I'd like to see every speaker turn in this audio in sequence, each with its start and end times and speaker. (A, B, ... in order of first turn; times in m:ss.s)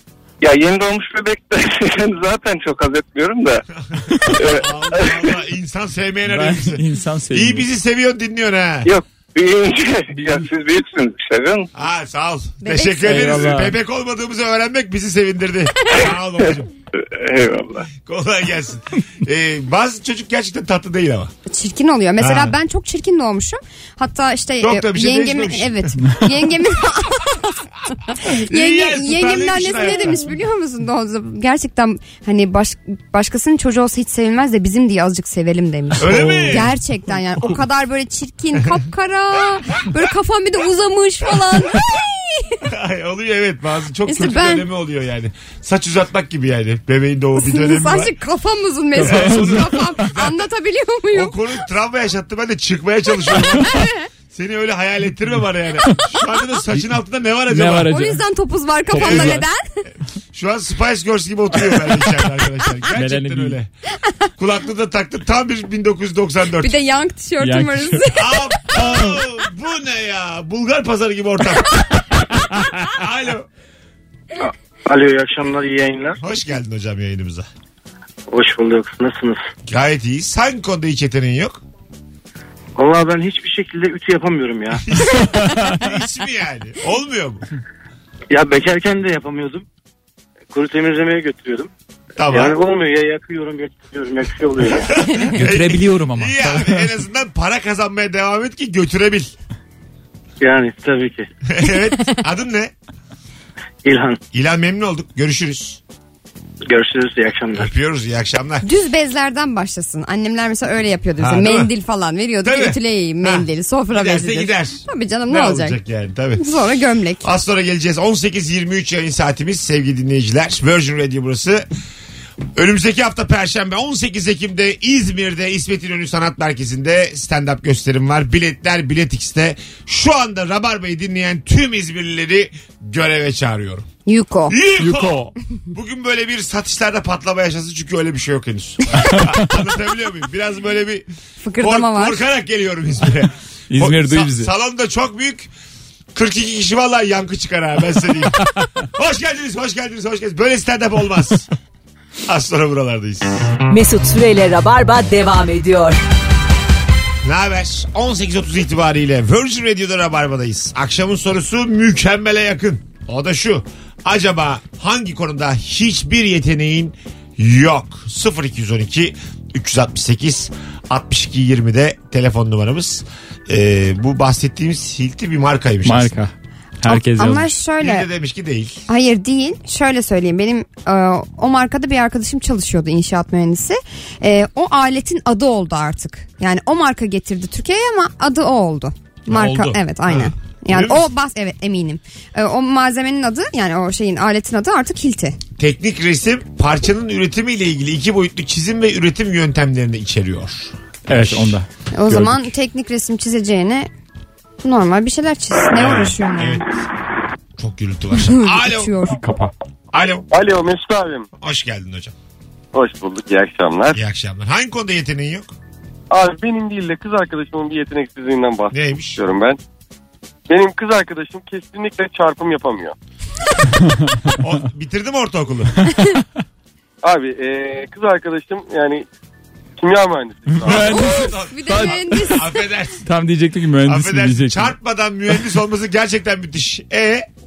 0:00.4-0:03.6 A
0:03.9-0:08.9 B
0:04.3-0:05.3 A
0:06.3-0:07.7 C
0:08.8-0:11.7 A
0:11.7-0:16.7 B
0:12.6-0:13.4 D
0:13.0-0:13.8 C
0:16.9-0:17.9 A
0:18.0-0:21.3 B
0:21.5-0:42.6 D
0:22.2-0:22.5 B
0:24.6-0:26.0 B
0:28.2-0:30.3 B
0:36.0-0:36.8 B
0:36.0-0:36.8 C
0:42.6-0:48.1 B
0:44.1-0:44.6 D
0:47.4-0:51.4 D
0:49.0-0:50.5 B
0:49.0-0:50.1 C
0:51.1-0:57.9 B
0:53.4-0:53.9 D
0:57.5-0:58.2 C
0:57.8-0:59.6 D
0:58.9-0:59.4 C
0:58.9-0:59.4 B
1:00.3-1:03.7 B
1:03.0-1:03.6 C
1:04.4-1:06.8 B
1:06.6-1:09.2 D
1:07.4-1:08.1 C
1:08.1-1:11.8 B
1:12.3-1:12.9 C
1:12.8-1:13.5 B
1:14.8-1:16.2 E
1:16.2-1:17.5 B
1:18.3-1:19.5 E
1:19.7-1:21.6 B
1:22.8-1:24.8 E
1:24.7-1:27.4 B
1:25.1-1:25.8 C
1:28.3-1:29.6 E
1:30.5-1:31.7 E
1:32.2-1:32.6 B
1:32.3-1:35.0 E
1:34.7-1:39.3 B
1:35.3-1:36.9 C
1:40.4-1:41.3 E
1:41.4-1:42.7 B
1:43.8-1:44.2 E
1:44.3-1:45.8 B
1:46.7-1:47.7 E
1:47.5-1:48.6 B
1:48.6-1:55.8 D
1:51.2-1:51.7 B
1:52.4-1:56.4 B
1:56.4-1:57.3 D
1:57.2-2:01.6 B
2:02.5-2:13.9 B
2:14.0-2:14.6 D
2:14.5-2:21.1 B
2:14.8-2:15.4 C
2:18.9-2:19.5 C
2:21.4-2:22.2 D
2:21.6-2:25.5 B
2:23.7-2:24.5 C
2:26.1-2:31.5 B
2:32.2-2:33.5 B
2:33.7-2:36.0 F
2:37.2-2:56.1 B
2:55.8-2:57.6 C
2:56.8-2:58.1 D
2:57.8-2:58.8 B
2:58.9-3:15.4 D
3:09.3-3:11.1 B
3:09.4-3:09.7 C
3:15.6-3:21.5 B
3:21.1-3:21.7 C
3:21.9-3:23.9 D
3:22.1-3:22.5 B
3:24.6-3:26.6 D
3:25.7-3:26.7 B
3:27.6-3:28.9 B
3:28.2-3:29.2 D
3:29.2-3:29.5 C
3:29.9-3:30.3 B
3:30.3-3:31.3 G
3:31.4-3:32.1 B
3:32.7-3:34.0 G
3:33.9-3:35.5 B
3:36.1-3:39.6 G
3:38.7-3:39.2 B
3:40.5-3:42.9 G
3:43.7-3:44.4 C
3:44.4-3:45.8 B
3:47.0-3:49.0 G
3:49.8-3:51.0 G
3:50.5-3:52.4 C
3:50.7-3:53.0 B
3:50.8-3:52.6 D
3:53.0-3:54.7 C
3:53.8-3:57.3 B